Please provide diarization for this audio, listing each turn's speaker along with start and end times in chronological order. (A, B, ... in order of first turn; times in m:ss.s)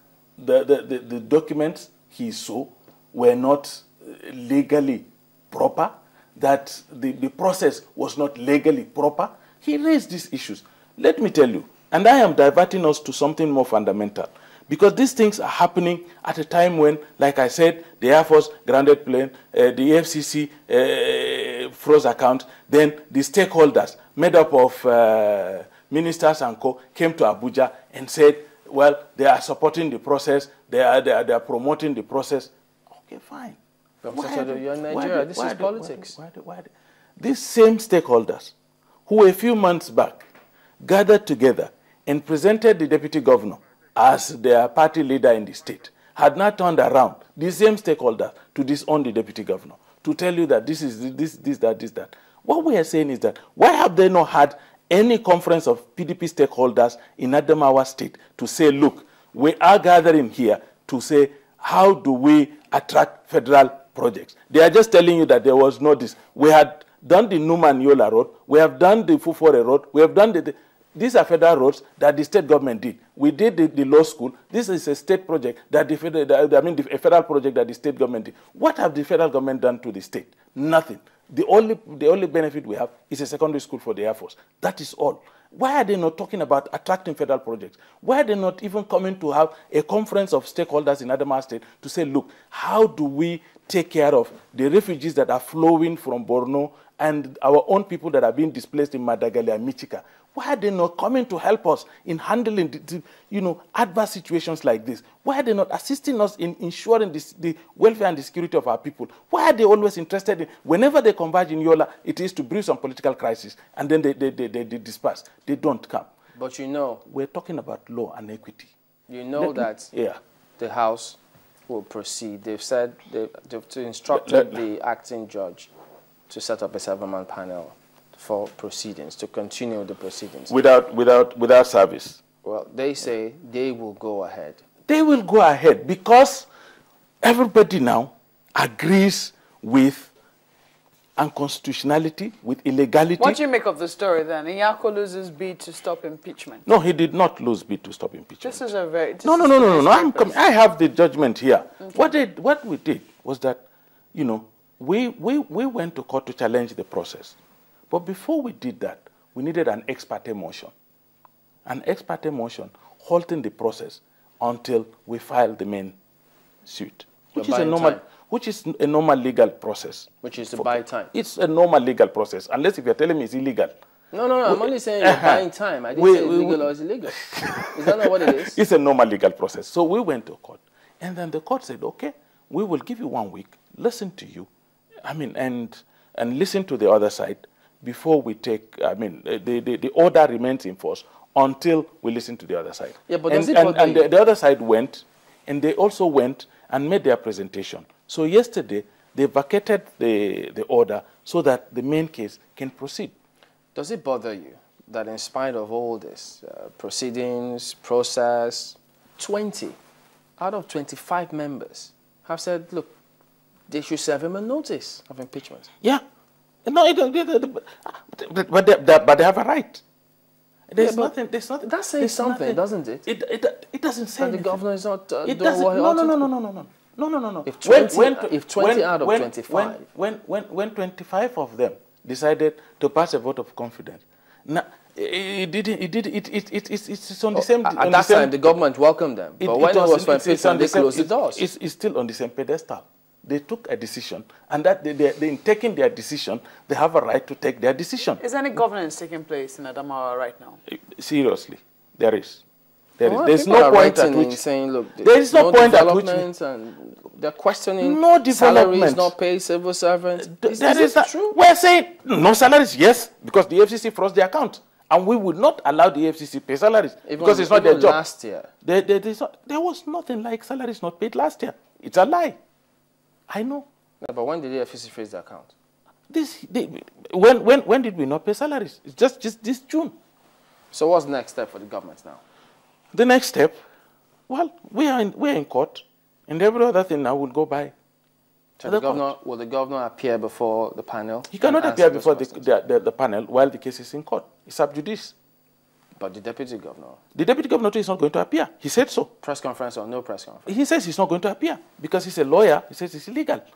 0:00.4-0:33.6 A
0:34.0-0:36.2 B
0:34.1-0:38.5 A
0:39.1-0:40.3 A
0:40.8-1:56.1 A
1:56.3-1:57.0 B
1:57.1-1:58.7 A
1:59.1-1:59.9 B
1:59.4-2:00.2 A
2:00.6-2:05.7 B
2:04.1-2:04.6 A
2:06.3-2:10.6 B
2:10.5-2:12.2 A
2:12.4-2:14.6 B
2:14.9-2:16.5 A
2:17.2-2:20.1 A
2:21.2-2:23.4 A
2:23.2-2:26.6 C
2:26.6-2:28.7 A
2:28.4-2:30.4 C
2:29.2-2:37.4 A
2:31.9-2:32.1 C
2:37.9-2:40.7 A
2:41.6-2:46.0 A
2:46.6-2:53.7 A
2:47.4-2:48.0 B
2:50.2-2:51.1 B
2:54.1-2:58.6 B
2:54.4-3:04.5 A
3:05.0-3:23.1 A
3:13.1-3:14.1 B
3:23.7-3:29.8 B
3:30.4-3:33.0 B
3:33.7-3:35.7 B
3:36.6-3:39.8 A
3:40.7-3:44.6 A
3:40.8-3:43.1 B
3:44.2-3:46.3 B
3:45.2-3:58.5 A
3:47.4-3:49.8 B
3:57.3-4:01.4 B
3:59.4-4:08.2 A
4:08.2-4:10.6 C
4:10.7-4:12.4 A
4:13.0-4:14.4 A
4:13.0-4:21.3 B
4:15.0-4:16.3 A
4:17.8-4:19.1 A
4:20.2-4:28.0 A
4:27.0-4:28.5 B
4:28.6-4:32.4 A
4:33.3-4:33.7 A
4:34.0-4:35.5 B
4:36.1-4:39.9 A
4:40.7-4:42.2 B
4:42.9-4:43.6 A
4:44.3-4:47.7 A
4:48.6-4:52.5 B
4:48.6-4:49.1 A
4:51.3-4:55.2 A
4:56.0-4:57.0 B
4:57.2-4:59.1 A
4:59.2-5:00.5 B
5:00.5-5:03.4 A